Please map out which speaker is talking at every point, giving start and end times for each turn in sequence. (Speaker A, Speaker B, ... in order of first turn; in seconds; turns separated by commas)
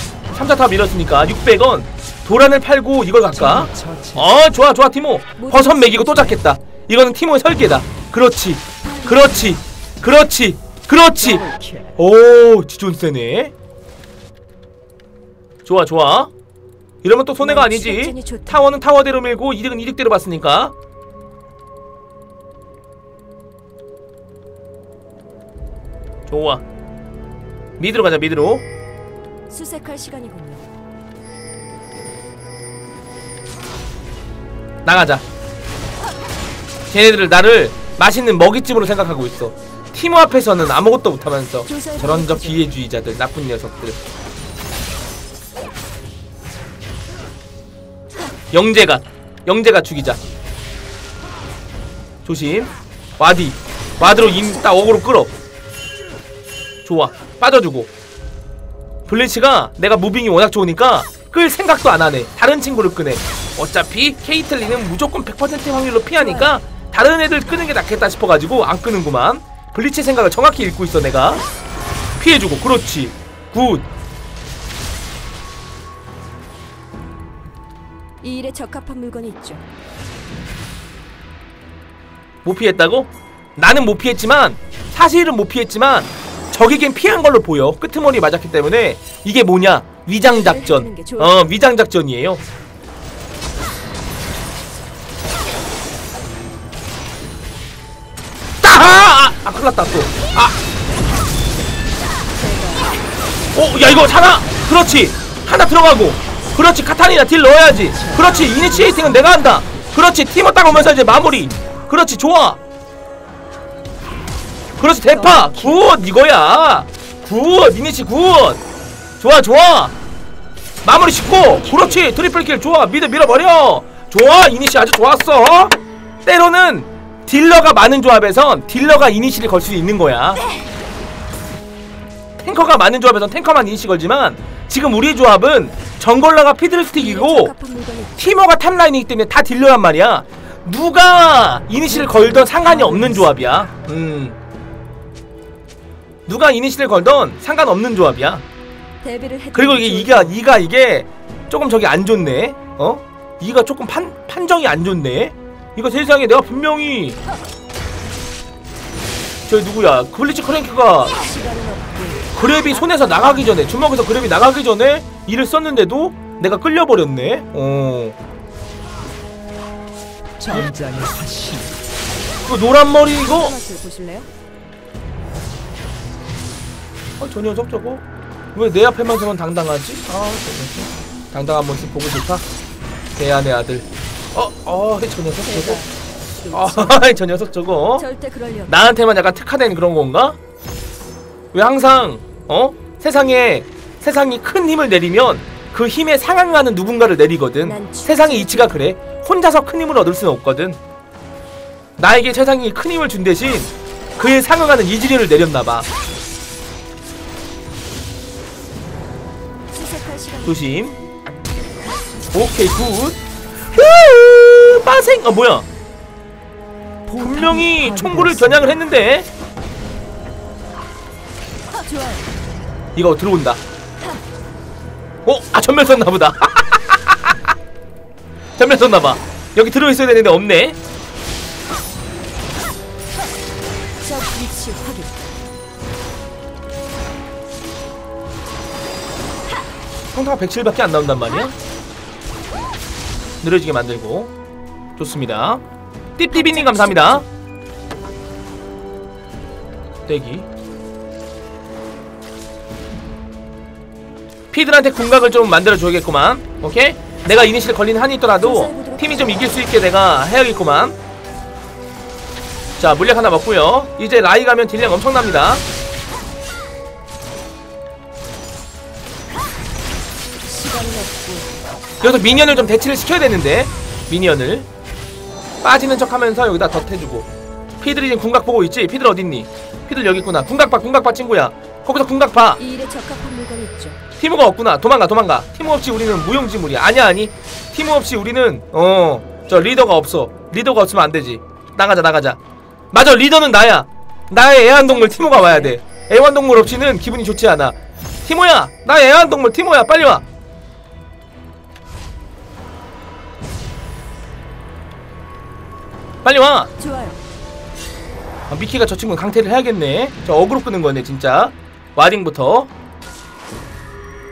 Speaker A: 0.3-13.5, Speaker B: 3.4-4.3, Speaker C: 5.4-6.4, Speaker C: 8.8-9.6, Speaker B: 11.2-11.9, Speaker A: 15.7-16.3, Speaker A: 17.0-20.7, Speaker C: 17.4-18.7, Speaker A: 26.3-26.6, Speaker A: 27.8-28.6, Speaker C: 29.5-30.7, Speaker A: 34.9-35.2, Speaker A: 36.9-44.0, Speaker C: 41.7-42.7, Speaker A: 48.5-50.2, Speaker A: 52.2-55.3, Speaker C: 54.0-54.9, Speaker A: 56.9-57.9, Speaker A: 59.1-71.4, Speaker C: 66.2-66.5, Speaker A: 72.2-73.9, Speaker C: 78.2-79.6, Speaker A: 82.4-92.4, Speaker C: 90.3-91.3, Speaker A: 98.6-100.6, Speaker C: 102.4-103.0, Speaker A: 103.5-112.6, Speaker B: 107.7-109.3, Speaker B: 110.8-111.7, Speaker A: 114.8-118.6, Speaker C: 115.3-115.7, Speaker A: 119.2-120.0, Speaker A: 120.8-130.4, Speaker C: 121.4-122.0, Speaker A: 132.4-137.5, Speaker C: 136.9-138.3, Speaker A: 138.2-144.4, Speaker C: 142.0-143.0, Speaker B: 142.0-143.3, Speaker A: 146.3-148.4, Speaker C: 149.0-150.4, Speaker A: 149.5-157.2, Speaker A: 159.5-161.2, Speaker C: 161.1-163.7, Speaker A: 162.3-168.2, Speaker B: 170.4-171.8, Speaker A: 172.4-173.6, Speaker C: 173.2-174.3, Speaker A: 177.2-182.4, Speaker A: 183.2-185.8, Speaker C: 185.4-187.2, Speaker A: 186.5-188.1, Speaker C: 188.0-188.8, Speaker A: 188.7-190.4, Speaker A: 191.5-200.8, Speaker C: 197.6-198.9, Speaker A: 202.0-205.9, Speaker C: 209.7-210.9, Speaker A: 210.4-211.0, Speaker A: 212.3-215.7, Speaker B: 217.1-218.8, Speaker A: 217.2-219.3, Speaker C: 221.7-222.3, Speaker A: 223.0-223.6, Speaker A: 225.2-227.4, Speaker A: 228.6-230.8, Speaker C: 234.0-235.3, Speaker A: 240.1-241.5, Speaker A: 243.4-244.3, Speaker A: 245.0-245.6, Speaker A: 246.2-247.2, Speaker C: 246.3-247.2, Speaker A: 250.1-250.5, Speaker A: 254.5-261.0, Speaker C: 258.4-259.5, Speaker A: 262.8-265.6, Speaker C: 270.4-272.9, Speaker A: 272.0-274.7, Speaker A: 275.6-277.3, Speaker A: 277.8-282.6, Speaker C: 282.6-284.0, Speaker A: 284.2-292.4, Speaker A: 292.9-300.2, Speaker C: 294.7-295.8, Speaker A: 306.2-306.7, Speaker C: 306.8-307.2, Speaker A: 308.5-312.7